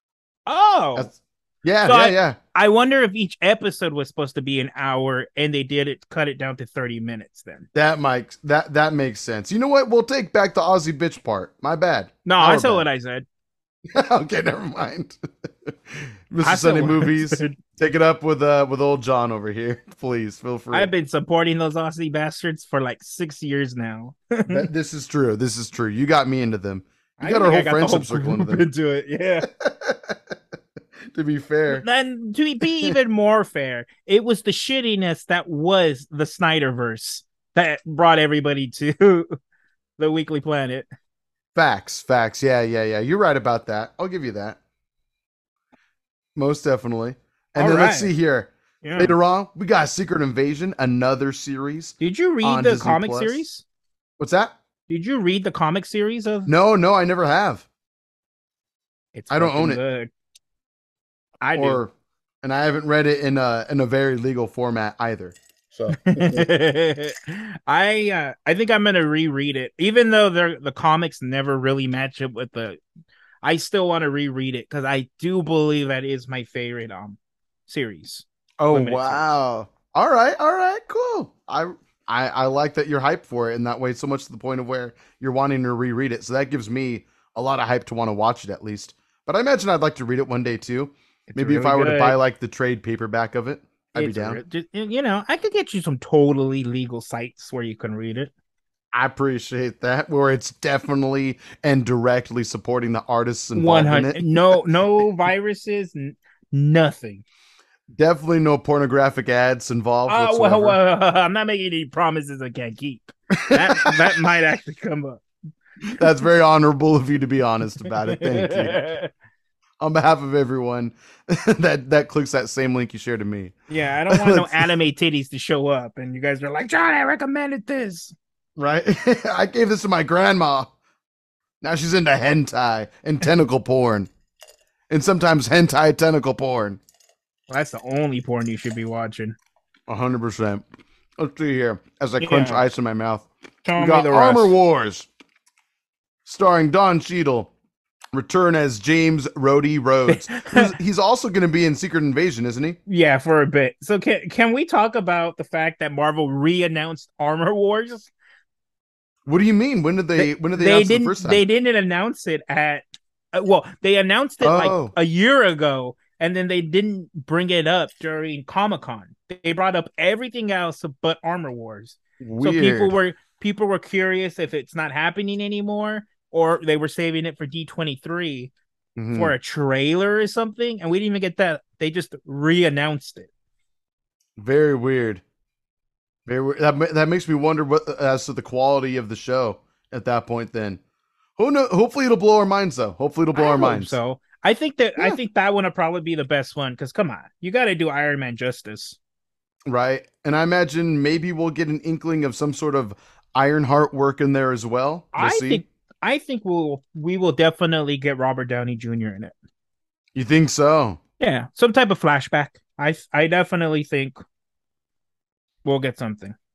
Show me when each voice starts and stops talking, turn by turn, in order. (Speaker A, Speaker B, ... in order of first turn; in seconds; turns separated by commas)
Speaker A: 0.5-1.1, Speaker B: 0.9-2.4, Speaker A: 1.8-7.7, Speaker B: 7.7-12.8, Speaker A: 12.2-13.2, Speaker B: 13.9-20.9, Speaker A: 16.4-17.6, Speaker A: 20.7-24.7, Speaker B: 24.5-28.6, Speaker A: 27.2-29.5, Speaker B: 29.5-30.3, Speaker B: 31.1-31.8, Speaker A: 31.7-39.3, Speaker A: 40.0-40.9, Speaker B: 41.5-44.6, Speaker B: 46.4-53.4, Speaker A: 47.6-48.1, Speaker A: 48.8-49.1, Speaker A: 52.0-53.6, Speaker B: 54.2-54.5, Speaker A: 54.9-56.5, Speaker B: 56.5-57.6, Speaker A: 59.1-60.1, Speaker B: 59.3-59.8, Speaker A: 61.4-61.8, Speaker B: 61.5-61.9, Speaker B: 62.4-66.5, Speaker A: 65.9-72.8, Speaker A: 73.4-79.3, Speaker B: 78.6-94.4, Speaker A: 91.3-92.2, Speaker A: 94.0-98.3, Speaker B: 98.9-104.5, Speaker A: 103.5-107.2, Speaker B: 107.9-110.8, Speaker A: 110.1-115.2, Speaker B: 113.3-114.0, Speaker B: 115.9-118.9, Speaker A: 118.0-119.1, Speaker B: 119.8-123.5, Speaker A: 123.7-128.1, Speaker B: 124.1-124.7, Speaker B: 128.6-130.7, Speaker B: 131.6-134.1, Speaker B: 134.9-136.8, Speaker A: 137.5-139.4, Speaker B: 139.9-140.6, Speaker B: 141.2-145.1, Speaker A: 142.2-142.6, Speaker A: 143.6-144.5, Speaker B: 146.2-147.5, Speaker B: 148.1-152.8, Speaker A: 150.1-150.7, Speaker A: 152.9-158.1, Speaker B: 159.2-161.4, Speaker A: 160.2-178.5, Speaker B: 164.4-164.9, Speaker B: 172.2-172.9, Speaker B: 178.9-179.3, Speaker A: 179.1-183.3, Speaker B: 184.4-185.2, Speaker B: 186.3-190.8, Speaker B: 191.4-193.9, Speaker A: 193.3-199.0, Speaker B: 199.7-205.6, Speaker A: 205.1-209.3, Speaker B: 210.1-211.0, Speaker A: 211.2-214.2, Speaker A: 215.6-216.3